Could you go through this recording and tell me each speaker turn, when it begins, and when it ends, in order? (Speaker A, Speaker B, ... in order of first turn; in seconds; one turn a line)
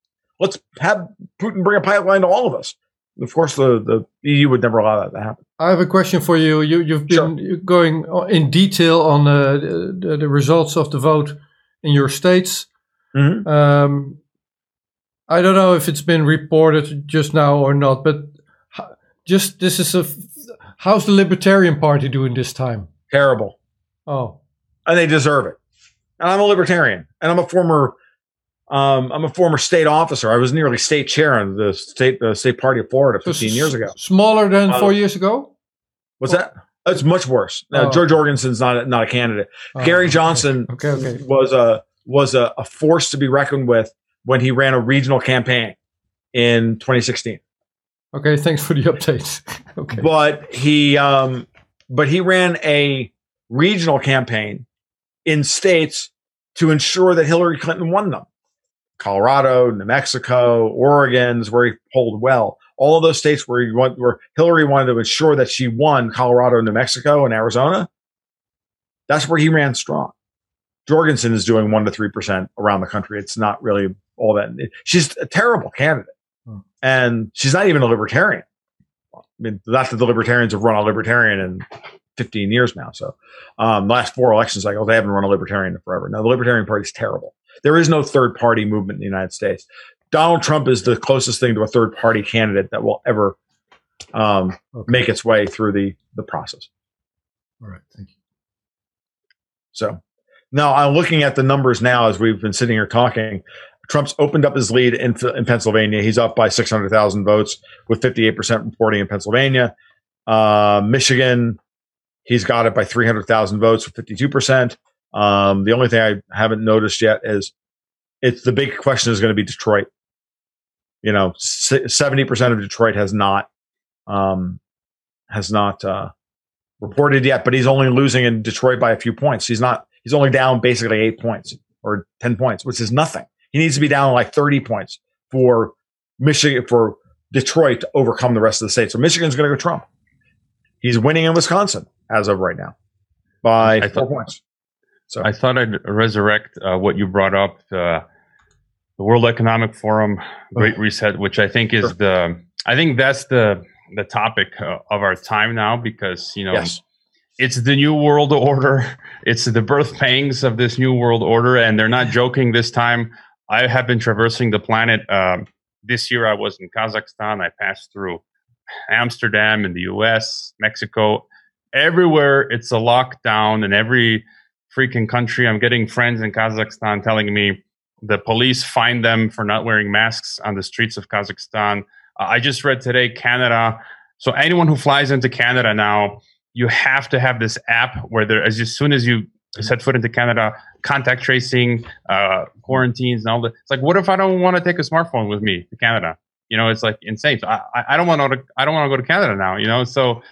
Speaker A: 0.4-5.4
Speaker B: 5.6-12.7
Speaker A: 13.1-13.5
Speaker B: 13.4-14.2
Speaker B: 15.3-22.9
Speaker A: 23.1-23.6
Speaker B: 24.1-24.4
Speaker A: 24.9-25.6
Speaker A: 26.2-28.0
Speaker A: 28.7-34.0
Speaker B: 33.2-35.5
Speaker A: 34.7-35.0
Speaker A: 36.2-45.8
Speaker B: 37.7-38.1
Speaker B: 39.8-41.2
Speaker A: 46.3-47.4
Speaker B: 48.1-50.1
Speaker A: 49.9-54.6
Speaker A: 55.2-58.3
Speaker A: 59.0-67.9
Speaker A: 69.1-70.1
Speaker A: 70.9-76.1
Speaker A: 76.8-78.5
Speaker A: 79.4-93.4
Speaker A: 94.1-96.7
Speaker B: 97.6-98.1
Speaker A: 99.7-100.0
Speaker A: 100.5-109.7
Speaker A: 110.3-111.6
Speaker A: 112.3-117.5
Speaker A: 118.2-119.9
Speaker A: 121.0-123.5
Speaker A: 124.1-124.6
Speaker A: 125.3-126.1
Speaker A: 126.8-139.8
Speaker A: 140.8-142.8
Speaker A: 143.4-144.4
Speaker C: 143.6-144.0
Speaker C: 145.2-148.0
Speaker C: 149.0-156.8
Speaker A: 156.5-156.8
Speaker C: 157.4-168.2
Speaker C: 168.9-200.2